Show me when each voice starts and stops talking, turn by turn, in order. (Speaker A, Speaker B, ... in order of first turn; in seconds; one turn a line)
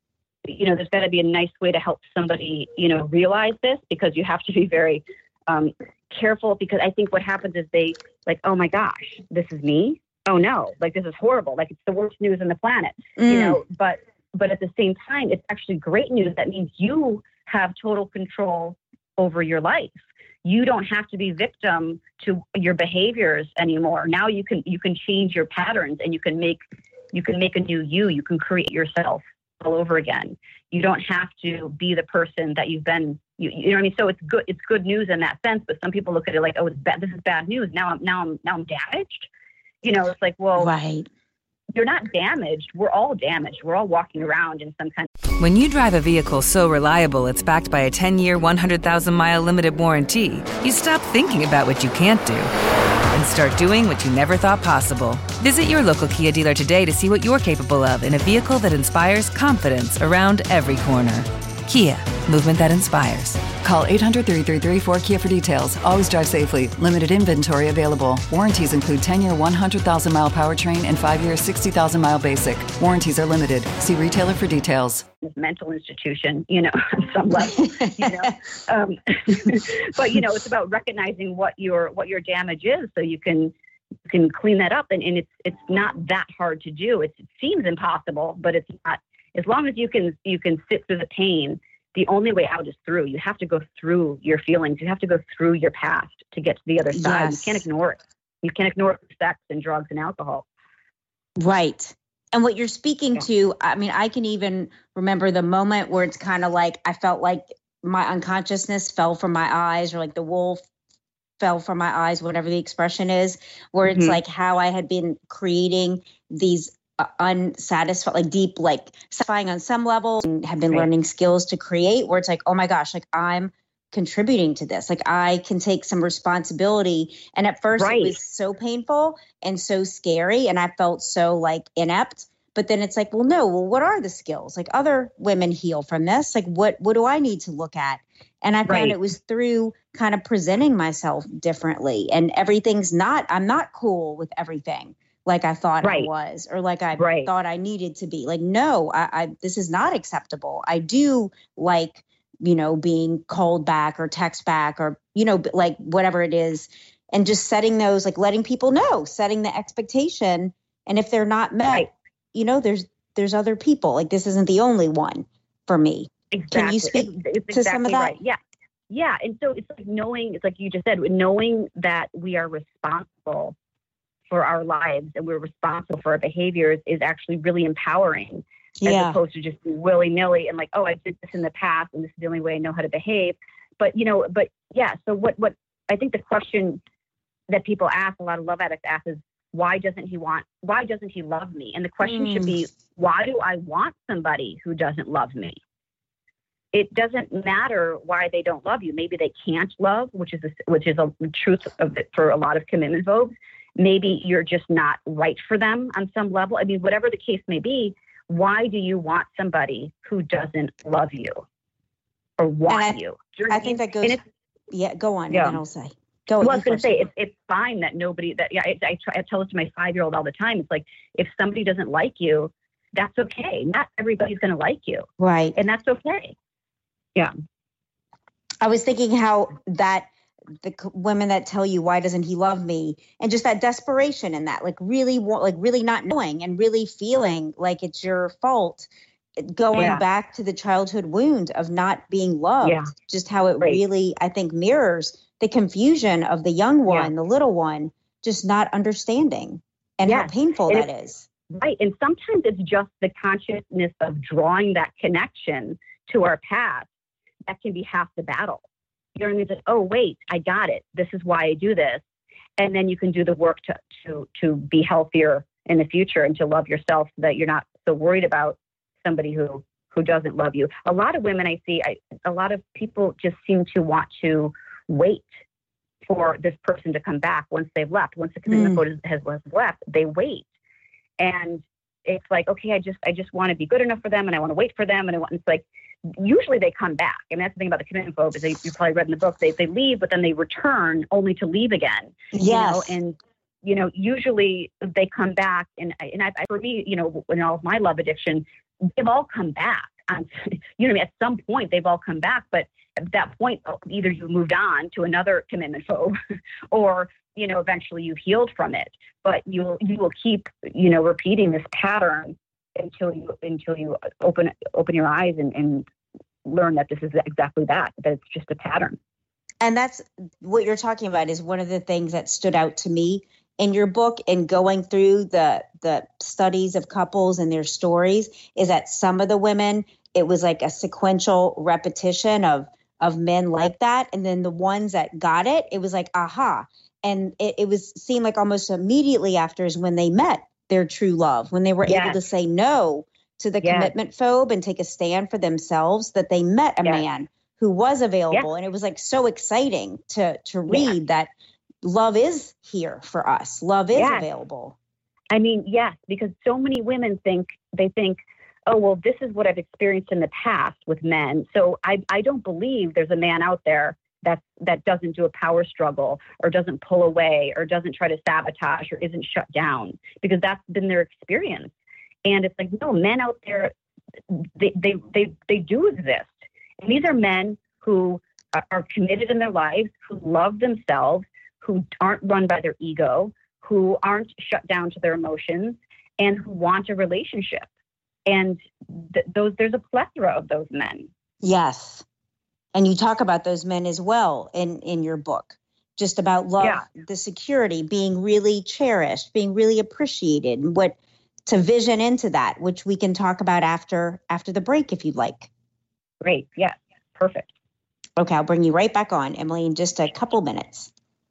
Speaker A: 0.4-26.6
Speaker B: 13.2-13.6
Speaker A: 27.1-39.3
Speaker A: 39.8-40.7
Speaker B: 40.6-41.1
Speaker A: 41.7-45.1
Speaker C: 45.4-52.5
Speaker C: 53.1-63.5
Speaker D: 63.6-75.0
Speaker A: 75.2-83.5
Speaker B: 77.4-78.3
Speaker A: 84.1-100.5
Speaker B: 96.9-97.6
Speaker B: 101.4-110.6
Speaker B: 111.4-168.2
Speaker A: 113.8-114.2
Speaker A: 127.8-128.2
Speaker A: 138.7-138.9
Speaker A: 145.8-146.1
Speaker A: 147.0-147.3
Speaker A: 166.3-168.4
Speaker A: 168.9-173.5
Speaker A: 174.3-186.8
Speaker B: 178.8-179.2
Speaker A: 187.5-195.6
Speaker B: 192.0-192.6
Speaker A: 196.7-211.4
Speaker A: 212.4-214.2
Speaker B: 212.7-214.2
Speaker B: 214.7-217.0
Speaker A: 215.3-215.6
Speaker A: 216.4-226.3
Speaker B: 225.2-225.6
Speaker B: 228.6-230.1
Speaker B: 230.6-251.2
Speaker A: 239.7-240.0
Speaker A: 242.6-242.9
Speaker A: 246.8-247.1
Speaker A: 250.1-250.9
Speaker A: 251.5-256.9
Speaker A: 257.5-258.6
Speaker A: 259.1-262.0
Speaker A: 262.6-275.3
Speaker A: 276.0-280.4
Speaker B: 278.5-278.8
Speaker A: 281.2-306.1
Speaker B: 292.3-293.0
Speaker A: 306.7-315.9
Speaker A: 316.4-319.0
Speaker B: 319.6-351.3
Speaker A: 341.9-342.2
Speaker A: 343.6-343.9
Speaker B: 351.8-354.7
Speaker A: 353.9-354.3
Speaker A: 355.3-371.7
Speaker A: 372.2-373.7
Speaker A: 374.3-387.7
Speaker A: 388.2-391.1
Speaker B: 391.4-392.0
Speaker B: 392.7-405.5
Speaker A: 406.2-407.5
Speaker B: 408.2-410.9